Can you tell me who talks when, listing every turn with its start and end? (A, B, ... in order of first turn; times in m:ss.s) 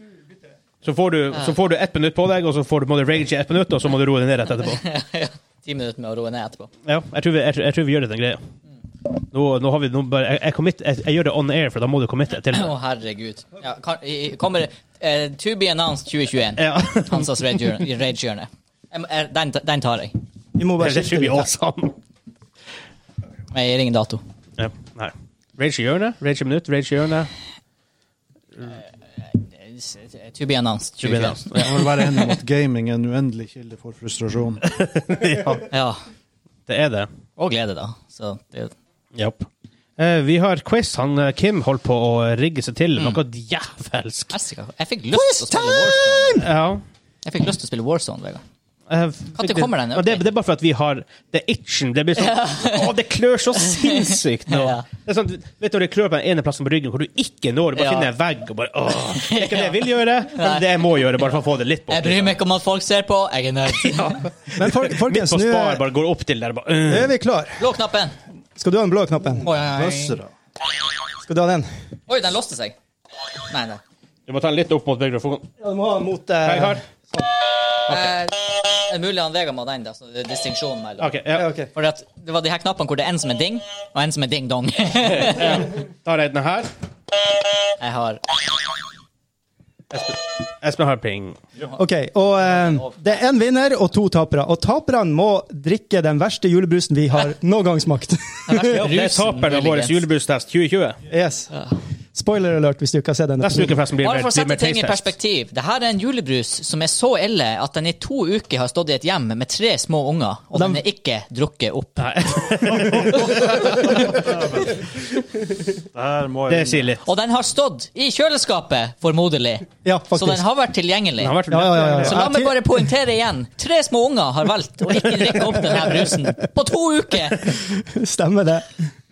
0:00.8-0:04.8 A
0:04.7-0:06.7 B
0:06.8-0:08.4 A
0:09.3-0:12.7 A
0:12.5-0:20.2 B
0:16.6-0:17.4 A
0:20.6-0:21.5 C
0:20.8-0:21.9 A
0:23.5-0:24.2 B
0:24.6-0:27.3 A
0:29.3-0:31.6 B
0:31.0-0:31.8 A
0:31.5-0:34.6 D
0:34.6-0:35.6 A
0:35.7-0:36.0 B
0:36.7-0:37.1 A
0:37.4-0:38.7 B
0:39.1-0:39.5 A
0:40.0-0:44.3 A
0:44.3-0:46.4 B
0:45.1-0:46.5 C
0:46.4-0:46.8 A
0:47.2-0:48.4 B
0:48.9-1:02.3 A
0:49.4-0:50.2 B
0:52.2-0:52.9 B
0:53.6-0:54.8 B
0:57.8-0:58.1 B
0:59.1-1:00.6 B
1:01.9-1:04.2 B
1:03.8-1:07.1 A
1:04.6-1:05.8 C
1:06.9-1:07.6 C
1:07.6-1:08.2 B
1:08.6-1:09.4 C
1:09.4-1:10.2 B
1:09.4-1:10.3 D
1:11.2-1:11.7 C
1:12.1-1:12.7 B
1:13.5-1:13.8 B
1:14.3-1:15.5 A
1:15.6-1:17.3 C
1:16.4-1:16.8 A
1:17.9-1:21.1 B
1:21.0-1:21.4 A
1:21.3-1:21.7 C
1:21.7-1:25.6 B
1:25.0-1:26.7 A
1:27.8-1:28.2 B
1:29.9-1:31.4 A
1:31.7-1:38.8 C
1:38.5-1:40.0 B
1:38.7-1:41.0 A
1:41.1-1:41.5 C
1:42.1-1:43.8 C
1:43.4-1:45.1 A
1:44.0-1:52.1 B
1:50.5-1:50.8 C
1:52.0-1:54.3 A
1:52.7-1:54.8 D
1:55.9-1:56.9 D
1:56.5-1:57.0 A
1:57.0-2:07.5 B
1:59.8-2:00.4 C
2:01.2-2:02.2 A
2:01.5-2:02.8 C
2:05.0-2:06.3 C
2:07.3-2:08.9 C